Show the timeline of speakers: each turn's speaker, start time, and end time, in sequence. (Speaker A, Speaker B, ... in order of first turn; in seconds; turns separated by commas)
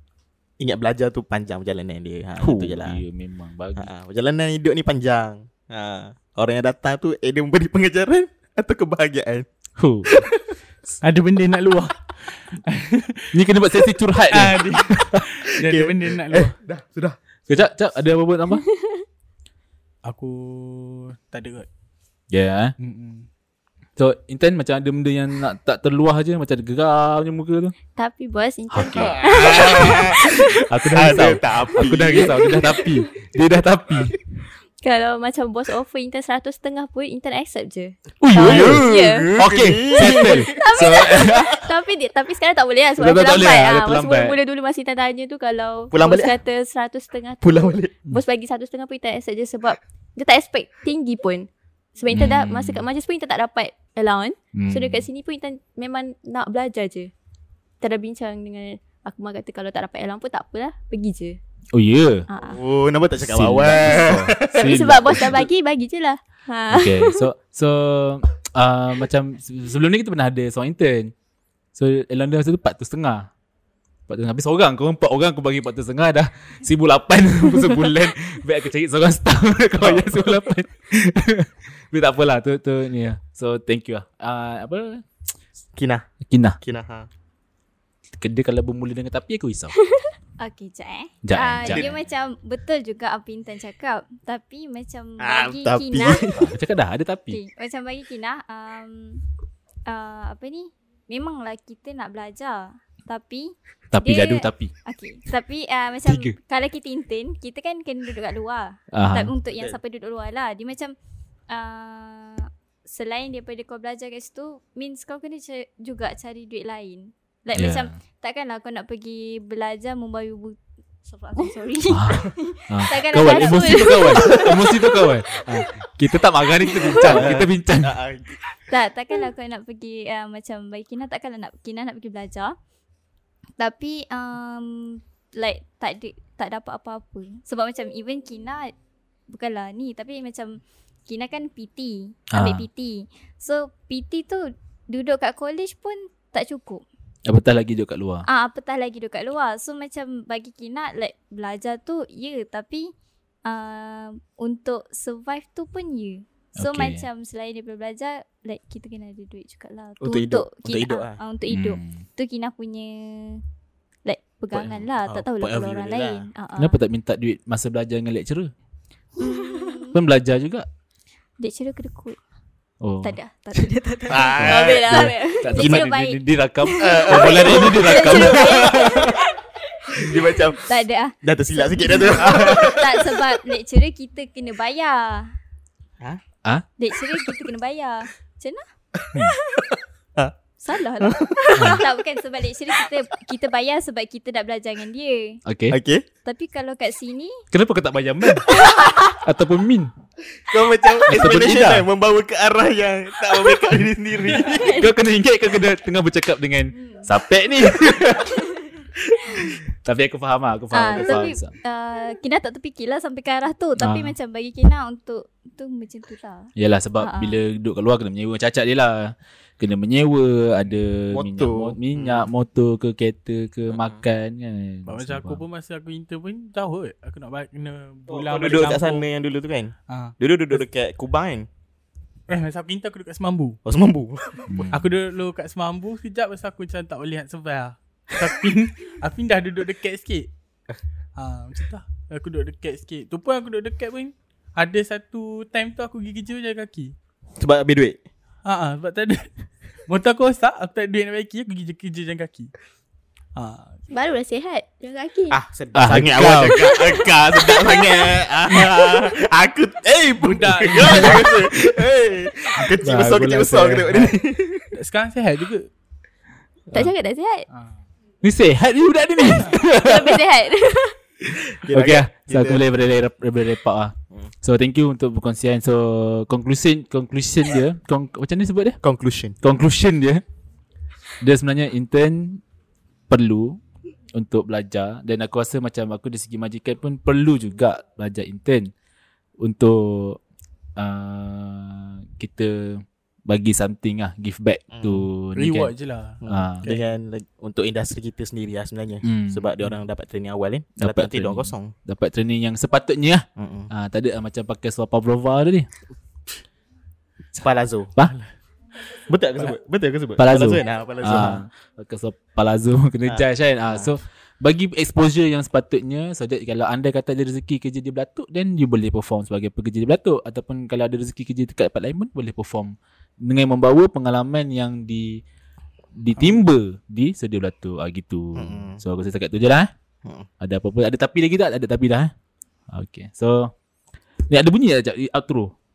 Speaker A: 0.6-3.0, Speaker B: 2.4-3.9, Speaker A: 3.8-9.5, Speaker B: 9.8-10.2, Speaker A: 10.1-10.4, Speaker C: 11.0-12.1, Speaker C: 12.7-13.3, Speaker B: 13.3-15.2, Speaker C: 14.3-16.6, Speaker A: 15.6-17.2, Speaker B: 17.5-18.7, Speaker D: 18.8-19.0, Speaker C: 20.1-21.7, Speaker B: 22.3-22.8, Speaker C: 22.8-23.3, Speaker B: 24.0-27.8, Speaker D: 28.0-30.6, Speaker B: 28.7-34.2, Speaker A: 28.9-32.6, Speaker D: 32.1-32.9, Speaker D: 34.8-39.3, Speaker B: 38.2-41.6, Speaker A: 38.3-41.2, Speaker D: 40.0-57.1, Speaker B: 43.0-44.4, Speaker A: 45.9-46.4, Speaker A: 47.4-48.0, Speaker B: 52.1-52.9, Speaker B: 54.5-55.1, Speaker D: 57.8-61.4, Speaker B: 61.7-62.3, Speaker D: 62.3-62.6, Speaker A: 62.5-65.5, Speaker B: 63.2-65.5, Speaker D: 63.7-67.2, Speaker B: 66.7-71.1, Speaker B: 71.8-73.3, Speaker B: 74.1-85.1, Speaker A: 79.8-80.5, Speaker A: 85.8-86.1, Speaker B: 86.3-86.6, Speaker A: 86.6-87.1, Speaker B: 88.2-89.8, Speaker E: 90.4-96.2, Speaker B: 91.2-91.9, Speaker A: 91.6-92.0, Speaker A: 95.2-96.5, Speaker B: 96.3-97.4, Speaker E: 97.3-99.2, Speaker E: 99.9-110.9, Speaker B: 103.9-104.7, Speaker B: 106.1-106.3, Speaker B: 108.9-109.3, Speaker E: 111.5-124.7, Speaker B: 117.5-117.9, Speaker B: 121.9-127.9, Speaker D: 123.2-125.0, Speaker A: 127.0-128.4, Speaker E: 128.7-132.6, Speaker E: 133.6-138.7, Speaker E: 139.3-146.8, Speaker B: 142.3-142.7, Speaker B: 147.3-148.3, Speaker E: 148.3-152.9, Speaker E: 153.4-163.4, Speaker B: 156.6-157.1, Speaker A: 160.0-161.2, Speaker B: 161.5-162.0, Speaker E: 164.1-166.8, Speaker A: 164.5-166.3, Speaker B: 166.6-168.5, Speaker E: 169.2-170.0, Speaker D: 169.2-169.7, Speaker B: 169.9-170.7, Speaker E: 171.4-172.2, Speaker B: 172.8-173.2, Speaker E: 173.0-179.2, Speaker A: 174.1-175.8, Speaker B: 174.3-179.0, Speaker D: 174.5-175.5, Speaker A: 176.8-179.2, Speaker D: 177.9-179.1, Speaker A: 179.9-180.7, Speaker E: 180.1-185.3, Speaker A: 181.2-183.2, Speaker E: 186.8-188.6, Speaker E: 190.6-195.4, Speaker A: 191.0-191.8, Speaker B: 191.6-191.8, Speaker B: 195.5-195.8, Speaker A: 195.7-196.1, Speaker E: 196.2-197.4, Speaker B: 197.5-198.5, Speaker E: 198.6-198.9, Speaker B: 199.0-199.9, Speaker A: 200.5-204.9, Speaker B: 201.1-201.8, Speaker B: 204.5-208.4, Speaker E: 206.7-207.1, Speaker E: 208.4-208.7, Speaker B: 209.8-211.5, Speaker E: 210.7-217.4, Speaker B: 213.8-214.1, Speaker B: 216.6-225.4, Speaker A: 221.1-222.3, Speaker A: 223.7-224.0, Speaker C: 224.9-229.1, Speaker A: 228.1-231.5, Speaker C: 229.9-230.2, Speaker C: 232.3-233.6, Speaker A: 233.7-234.5, Speaker B: 234.5-234.9, Speaker C: 234.6-240.3, Speaker C: 241.2-246.9, Speaker A: 247.4-248.0, Speaker C: 248.4-249.3, Speaker C: 249.9-252.5, Speaker C: 253.3-253.9, Speaker D: 253.9-255.4, Speaker A: 255.3-264.7, Speaker B: 255.8-256.6, Speaker D: 256.5-258.1, Speaker C: 260.2-261.3, Speaker B: 262.8-264.1, Speaker C: 264.7-265.7, Speaker D: 266.7-267.5, Speaker C: 267.5-267.8, Speaker B: 268.2-270.2, Speaker D: 269.8-271.0, Speaker A: 271.3-272.6, Speaker B: 271.7-278.8, Speaker A: 278.8-279.4, Speaker B: 279.4-280.2, Speaker B: 281.2-282.4, Speaker B: 283.1-283.6, Speaker B: 284.1-288.7, Speaker B: 289.4-290.2, Speaker B: 290.8-295.7, Speaker A: 294.7-295.1, Speaker C: 295.4-296.9, Speaker A: 296.2-301.7, Speaker B: 296.3-296.7, Speaker B: 299.0-299.5, Speaker B: 300.8-305.7, Speaker A: 303.4-303.7, Speaker A: 307.4-307.9, Speaker C: 308.0-308.3, Speaker A: 309.1-311.4, Speaker B: 310.2-325.2, Speaker A: 313.1-313.9, Speaker B: 326.0-329.7, Speaker A: 328.4-328.8, Speaker B: 330.4-332.1, Speaker B: 332.7-333.5, Speaker B: 334.3-335.6